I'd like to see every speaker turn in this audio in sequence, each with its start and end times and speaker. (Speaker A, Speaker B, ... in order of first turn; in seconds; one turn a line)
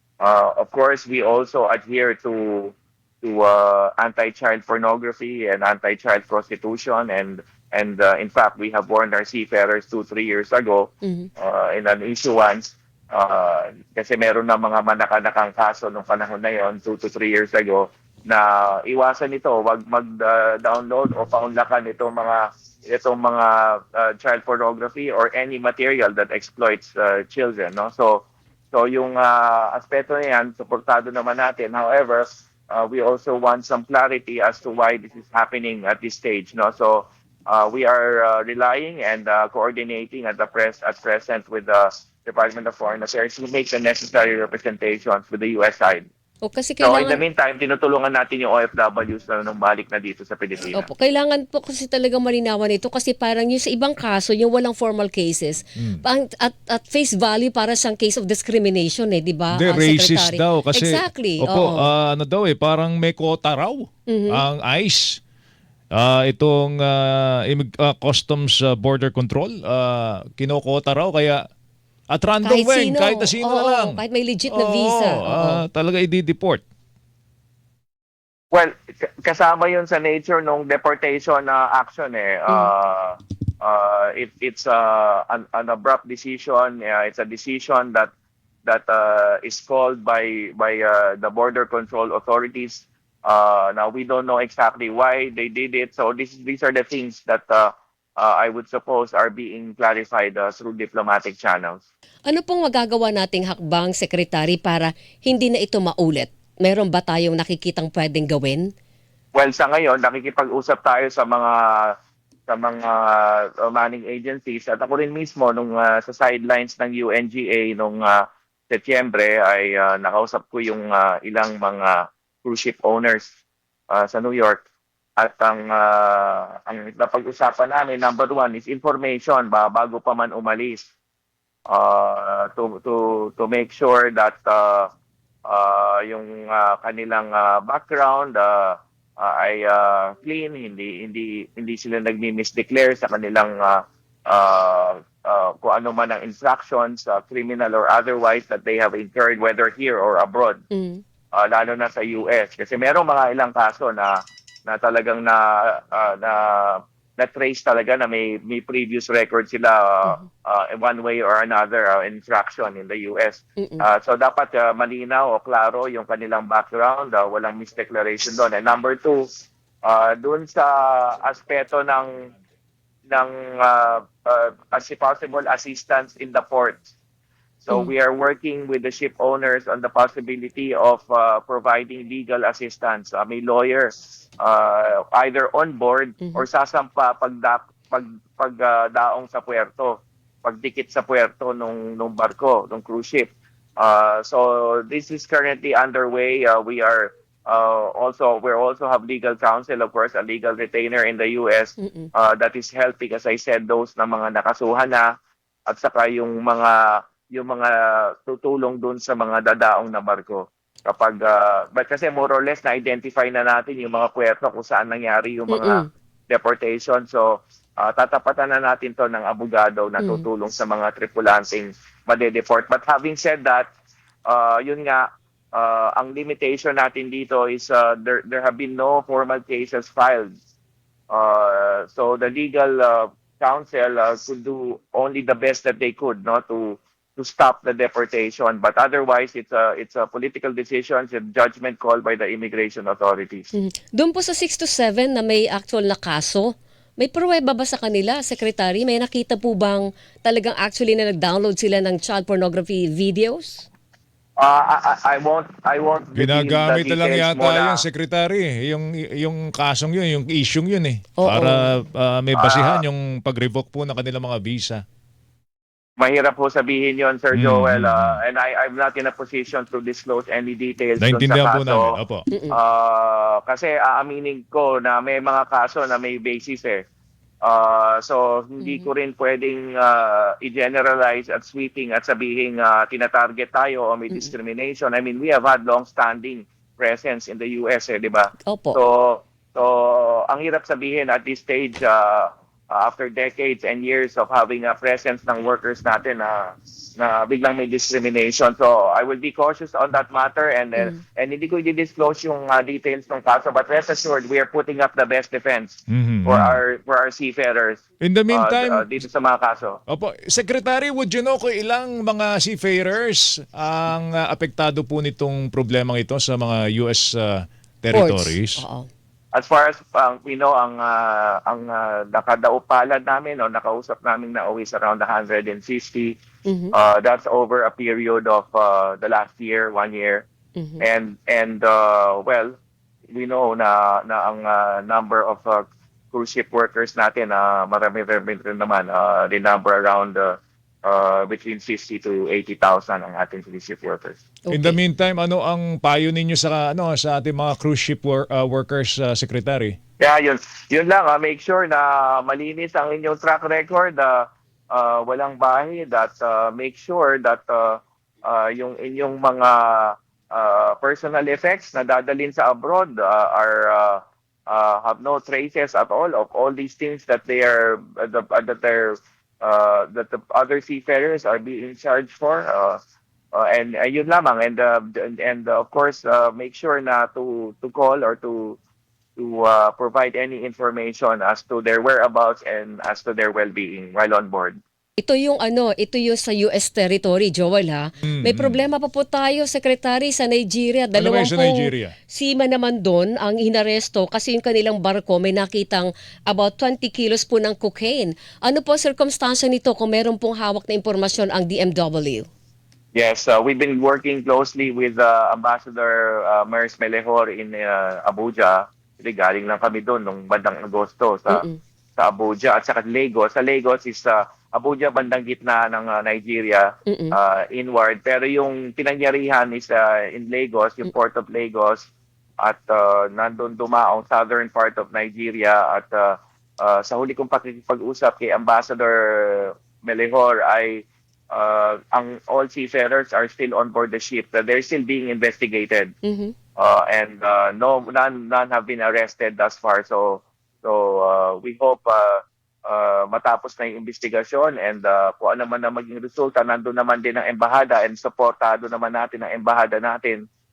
Speaker A: 0.2-46.0
Speaker B: 11.0-11.3
Speaker B: 46.4-47.2
Speaker A: 46.8-50.9
Speaker B: 50.7-61.9
Speaker C: 59.5-65.2
Speaker B: 64.1-64.4
Speaker C: 65.9-71.4
Speaker C: 72.1-76.6
Speaker B: 72.4-75.6
Speaker A: 78.5-88.1
Speaker A: 88.7-101.8
Speaker B: 102.3-108.6
Speaker A: 109.3-111.9
Speaker A: 112.5-123.3
Speaker A: 123.9-124.6
Speaker A: 125.2-130.9
Speaker A: 131.7-134.9
Speaker A: 135.5-150.6
Speaker B: 150.7-151.0
Speaker A: 151.3-154.2
Speaker A: 154.7-169.2
Speaker B: 163.6-163.8
Speaker A: 169.8-172.3
Speaker A: 173.1-176.9
Speaker A: 177.6-205.1
Speaker B: 201.8-202.1
Speaker A: 205.7-223.7
Speaker B: 215.5-215.8
Speaker B: 220.0-220.2
Speaker A: 224.3-230.3
Speaker A: 231.1-243.5
Speaker B: 243.6-246.4
Speaker B: 247.0-253.7
Speaker A: 254.4-257.8
Speaker C: 256.1-264.8
Speaker B: 261.2-261.7
Speaker A: 262.3-262.8
Speaker A: 266.0-271.9
Speaker C: 267.3-268.2
Speaker C: 271.0-272.2
Speaker B: 272.3-272.6
Speaker A: 272.5-276.8
Speaker A: 277.4-309.8
Speaker B: 278.6-278.9
Speaker B: 288.5-288.8
Speaker C: 305.9-306.6
Speaker C: 308.0-308.8
Speaker C: 309.9-318.6
Speaker B: 317.9-318.9
Speaker A: 319.3-326.1
Speaker B: 326.5-326.7
Speaker A: 326.7-330.2
Speaker B: 330.6-330.8
Speaker A: 330.8-332.6
Speaker A: 333.1-344.2
Speaker B: 344.4-344.8
Speaker C: 344.5-349.7
Speaker A: 350.0-372.8
Speaker A: 373.3-378.6
Speaker A: 379.2-384.6
Speaker B: 385.0-402.3
Speaker C: 388.0-388.6
Speaker C: 390.9-391.9
Speaker A: 402.9-421.9
Speaker B: 411.3-411.6
Speaker B: 416.9-417.1
Speaker A: 422.4-435.9
Speaker B: 436.0-436.3
Speaker A: 436.6-450.2